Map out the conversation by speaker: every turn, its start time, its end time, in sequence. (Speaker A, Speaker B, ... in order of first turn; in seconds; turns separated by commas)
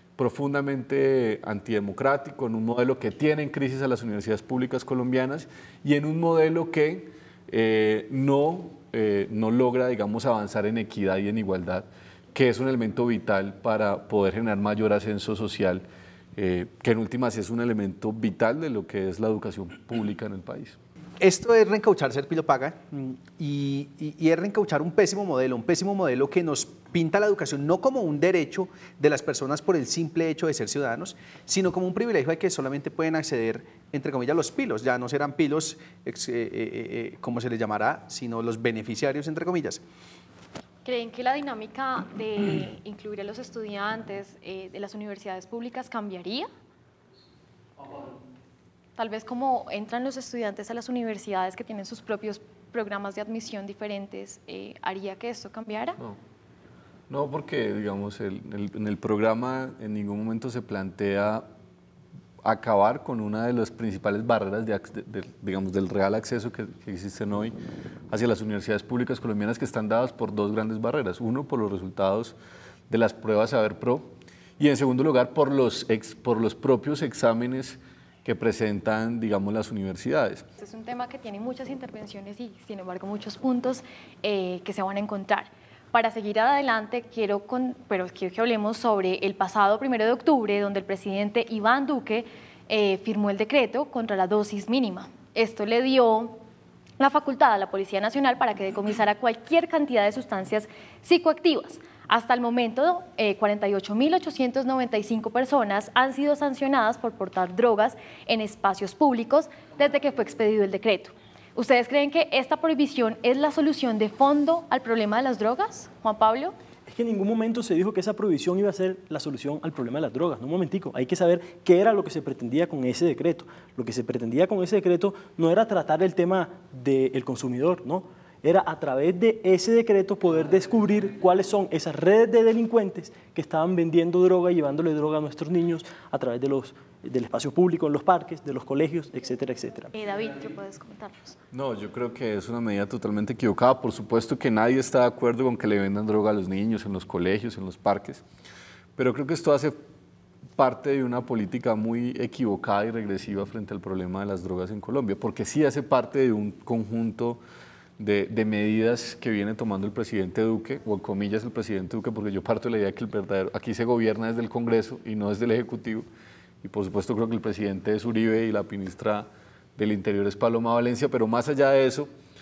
Speaker A: 0.2-15.8, Speaker A: 16.4-20.8, Speaker B: 21.2-39.8, Speaker C: 40.9-46.5, Speaker C: 49.0-56.0, Speaker A: 57.1-61.5, Speaker A: 62.4-67.6, Speaker A: 68.1-72.3, Speaker A: 72.9-80.5, Speaker C: 80.6-96.4, Speaker C: 97.0-116.5, Speaker D: 116.9-139.9, Speaker C: 139.9-141.4, Speaker A: 141.5-148.2, Speaker A: 149.0-149.8, Speaker A: 150.6-157.4, Speaker A: 158.0-166.1, Speaker A: 166.6-172.1